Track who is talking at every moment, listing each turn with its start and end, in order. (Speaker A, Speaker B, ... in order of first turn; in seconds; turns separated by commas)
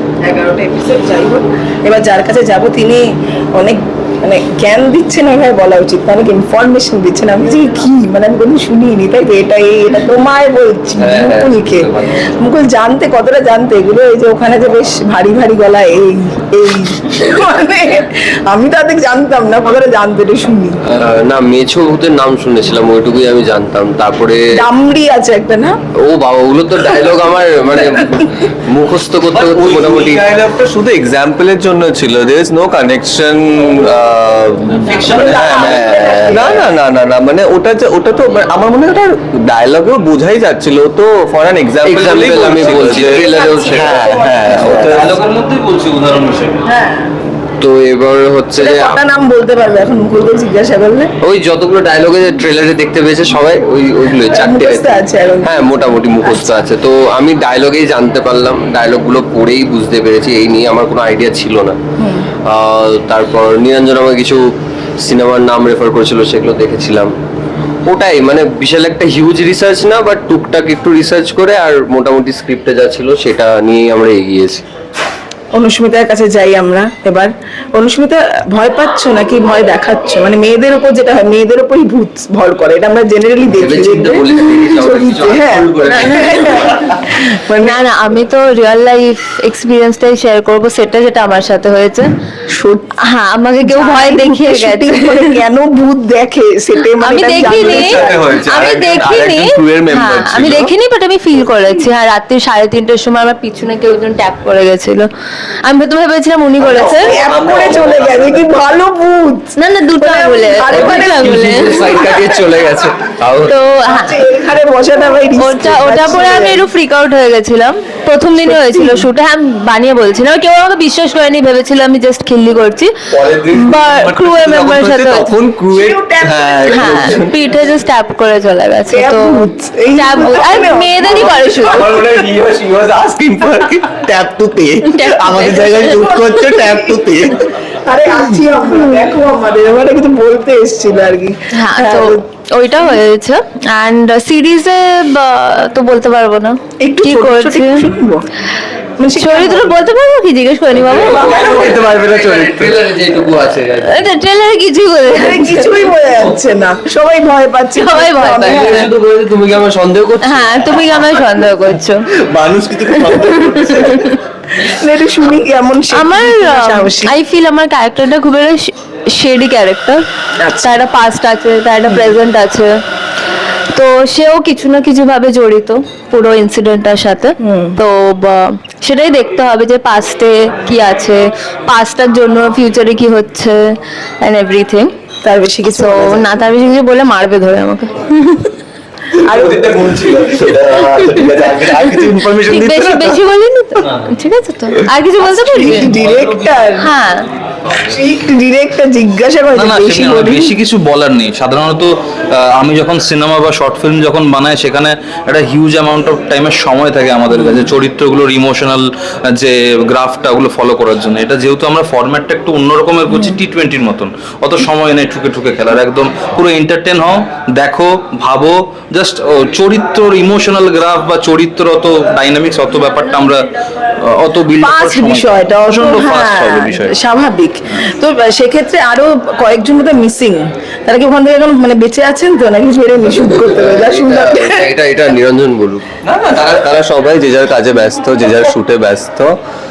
Speaker A: 0.2-20.8, Speaker B: 11.0-12.2, Speaker B: 20.9-24.6, Speaker A: 24.6-25.8, Speaker B: 26.0-30.2, Speaker C: 29.3-45.1, Speaker D: 34.8-35.6, Speaker A: 35.0-36.7, Speaker B: 35.6-36.4, Speaker B: 41.8-44.2, Speaker A: 42.8-45.1, Speaker D: 44.5-46.6, Speaker A: 46.7-47.1, Speaker B: 47.6-49.0, Speaker A: 48.6-51.1, Speaker B: 51.2-61.8, Speaker A: 54.3-55.7, Speaker A: 62.0-62.3, Speaker B: 62.4-64.4, Speaker B: 65.0-67.1, Speaker B: 67.9-74.6, Speaker A: 75.5-87.8, Speaker B: 83.5-86.3, Speaker C: 85.9-86.8, Speaker E: 85.9-86.4, Speaker E: 87.6-92.1, Speaker A: 92.5-92.9, Speaker E: 93.0-95.4, Speaker A: 93.7-98.3, Speaker E: 97.0-105.1, Speaker C: 97.5-100.7, Speaker E: 105.6-107.2, Speaker A: 106.6-112.2, Speaker C: 106.7-108.4, Speaker E: 109.5-111.7, Speaker B: 110.7-113.5, Speaker E: 113.4-114.2, Speaker A: 113.8-116.6, Speaker E: 115.4-122.9, Speaker A: 118.4-119.0, Speaker C: 123.1-127.3, Speaker E: 123.5-125.3, Speaker A: 125.7-127.2, Speaker E: 126.7-129.4, Speaker A: 128.9-132.1, Speaker E: 129.9-131.9, Speaker C: 131.6-137.5, Speaker E: 134.8-136.0, Speaker A: 136.0-137.0, Speaker A: 137.8-142.2, Speaker E: 141.5-147.9, Speaker A: 146.8-148.3, Speaker A: 149.0-149.8, Speaker E: 149.2-151.2, Speaker B: 150.8-154.1, Speaker A: 151.2-151.7, Speaker C: 151.3-152.8, Speaker E: 153.8-155.7, Speaker A: 155.1-158.8, Speaker E: 157.8-158.9, Speaker B: 158.2-160.8, Speaker E: 160.2-162.0, Speaker C: 162.3-164.1, Speaker E: 163.1-164.2, Speaker A: 164.6-167.1, Speaker E: 165.9-170.0, Speaker A: 170.4-170.7, Speaker E: 170.6-172.8, Speaker E: 173.7-184.9, Speaker A: 177.4-177.8, Speaker A: 185.2-186.4, Speaker E: 185.7-188.5, Speaker C: 189.1-193.2, Speaker A: 189.3-190.3, Speaker E: 192.5-195.9, Speaker A: 195.2-196.9, Speaker E: 196.8-197.3, Speaker A: 197.8-200.5, Speaker D: 199.5-223.4, Speaker D: 224.0-226.9, Speaker A: 224.6-234.7, Speaker B: 233.5-235.8, Speaker C: 236.0-239.4